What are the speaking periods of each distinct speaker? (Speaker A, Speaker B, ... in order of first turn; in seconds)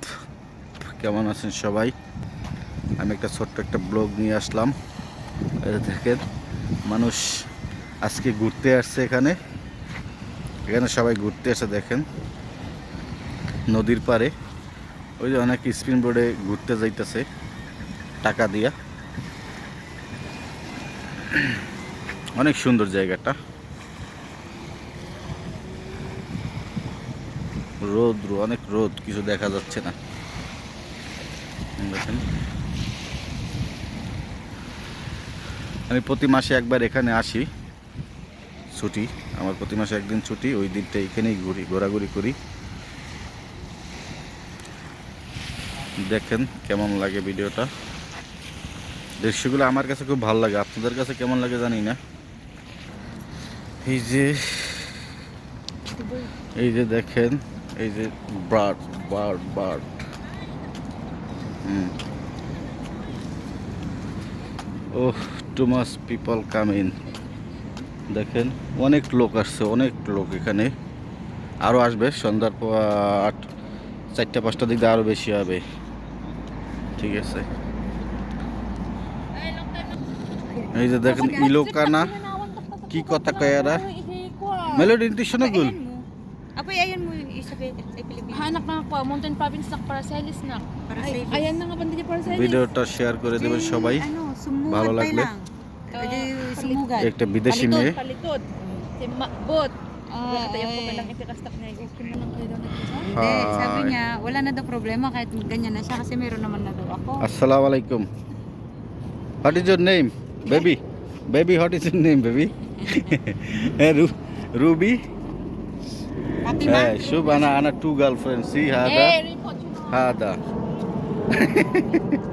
Speaker A: 0.8-1.9, 3.0-4.7, 5.6-6.2, 6.9-7.2, 8.0-9.4, 10.7-12.1, 13.7-14.3, 15.2-17.2, 18.2-18.7, 22.4-23.4, 27.9-29.9, 31.8-32.2, 35.9-37.5, 38.7-42.4, 46.1-47.7, 49.2-52.0, 53.8-54.9, 56.6-59.9, 61.6-61.9, 65.0-66.9, 68.1-70.7, 71.6-73.4, 74.1-75.6, 77.0-77.5, 80.7-82.1, 82.9-83.8, 84.7-85.8, 92.2-94.1, 94.7-95.3, 97.0-98.0, 103.0-104.0, 107.2-108.1, 109.4-115.1, 116.6-119.2, 119.9-120.4, 121.3-122.1
Speaker B: 55.9-56.3, 81.0-85.0, 88.3-92.7, 95.9-96.9, 97.6-103.2, 118.8-120.2, 121.5-122.0
Speaker C: 80.6-81.5, 85.4-86.0, 86.6-88.5, 90.9-91.5, 93.3-97.9, 100.1-101.1, 103.2-107.3, 116.4-117.7